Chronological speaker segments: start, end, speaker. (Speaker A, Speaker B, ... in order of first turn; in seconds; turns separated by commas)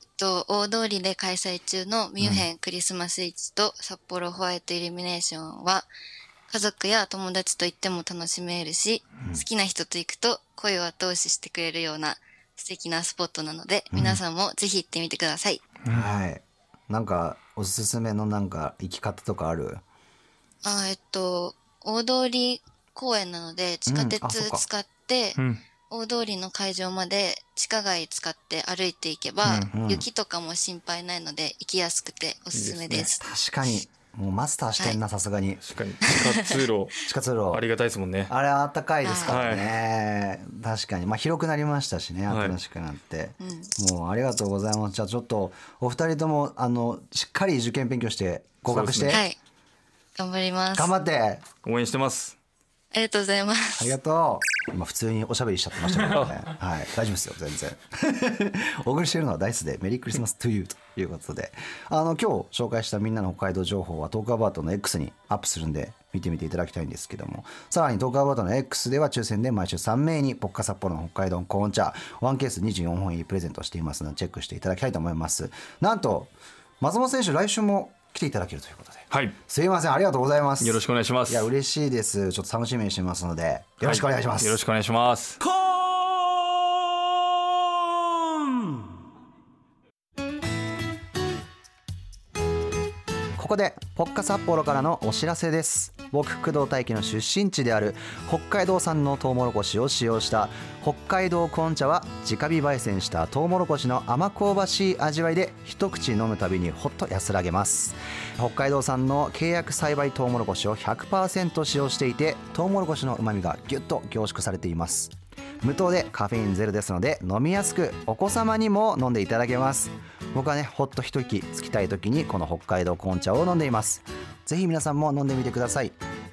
Speaker A: 0.2-5.9, Speaker B: 2.2-2.5, Speaker A: 6.5-15.6, Speaker B: 13.9-14.2, Speaker C: 15.8-16.1, Speaker B: 15.9-19.8, Speaker A: 20.6-25.4, Speaker B: 23.9-24.6, Speaker A: 25.9-33.2, Speaker C: 29.4-29.7, Speaker B: 29.7-30.1, Speaker C: 32.5-33.1, Speaker B: 33.2-35.6, Speaker C: 35.6-37.0, Speaker A: 36.1-36.5, Speaker B: 37.0-37.6, Speaker C: 37.5-38.3, Speaker B: 38.3-49.2, Speaker A: 39.0-39.4, Speaker C: 39.3-39.8, Speaker C: 42.3-42.6, Speaker A: 43.4-43.7, Speaker C: 48.7-49.2, Speaker A: 49.1-49.4, Speaker A: 50.2-50.9, Speaker B: 50.8-51.5, Speaker C: 51.6-52.4, Speaker A: 52.9-53.9, Speaker B: 53.8-84.6, Speaker C: 56.1-56.5, Speaker C: 79.1-79.4, Speaker C: 80.6-81.5, Speaker C: 83.8-85.4, Speaker B: 93.4-126.0